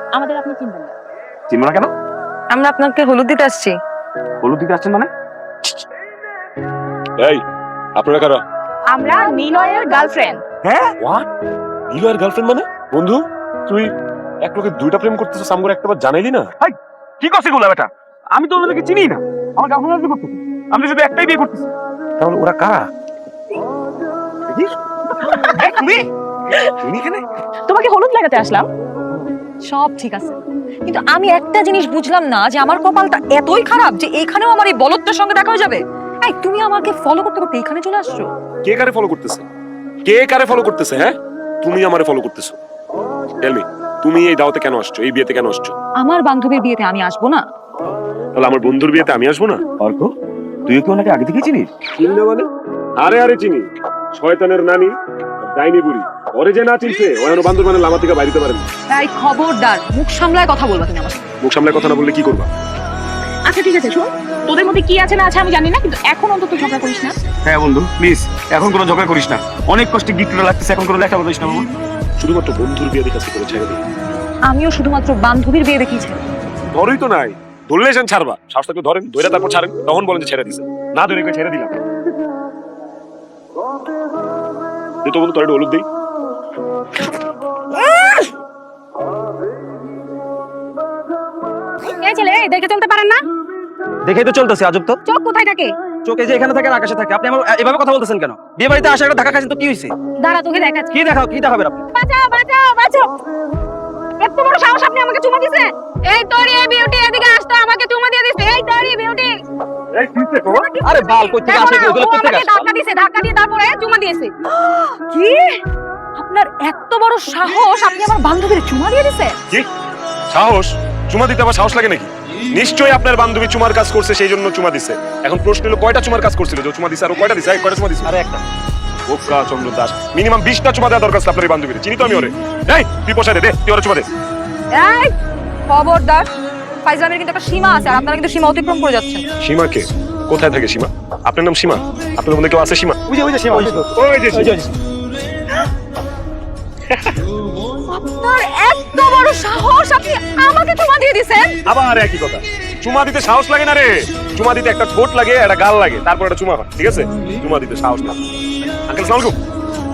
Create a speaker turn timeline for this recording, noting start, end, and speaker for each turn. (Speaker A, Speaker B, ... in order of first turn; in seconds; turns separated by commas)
Speaker A: 0.1-0.9, Speaker B: 1.5-1.9, Speaker C: 2.5-3.8, Speaker B: 4.4-5.1, Speaker D: 8.0-8.4, Speaker A: 8.9-10.4, Speaker C: 9.4-10.3, Speaker B: 10.6-10.9, Speaker D: 11.0-11.3, Speaker D: 11.9-13.9, Speaker D: 14.4-16.5, Speaker B: 16.6-21.7, Speaker D: 22.2-22.8, Speaker B: 25.4-26.0, Speaker B: 26.7-27.3, Speaker A: 27.7-28.7, Speaker C: 29.6-38.3, Speaker D: 38.6-39.5, Speaker D: 40.0-42.6, Speaker D: 43.4-45.8, Speaker C: 46.0-47.4, Speaker D: 48.4-49.6, Speaker B: 49.8-50.1, Speaker B: 50.7-51.7, Speaker D: 52.0-54.9, Speaker D: 55.4-58.6, Speaker C: 58.9-61.2, Speaker D: 61.4-62.5, Speaker A: 63.4-67.2, Speaker B: 67.4-71.7, Speaker D: 72.2-73.8, Speaker C: 74.5-76.2, Speaker D: 76.7-81.8, Speaker D: 85.0-85.9, Speaker A: 91.8-93.2, Speaker E: 94.0-95.0, Speaker A: 95.1-95.7, Speaker E: 96.0-99.9, Speaker A: 100.2-100.9, Speaker E: 100.9-101.8, Speaker A: 102.0-103.1, Speaker A: 104.2-109.3, Speaker D: 109.9-110.7, Speaker C: 110.4-111.6, Speaker E: 110.8-112.6, Speaker A: 111.4-114.3, Speaker C: 114.5-115.6, Speaker C: 116.2-119.4, Speaker D: 120.3-128.1, Speaker D: 129.1-134.1, Speaker C: 134.7-135.1, Speaker C: 135.7-136.3, Speaker C: 136.8-139.2, Speaker D: 139.4-143.0, Speaker E: 143.1-144.7, Speaker D: 143.9-144.6, Speaker C: 147.9-151.6, Speaker D: 151.7-158.2, Speaker D: 158.9-159.4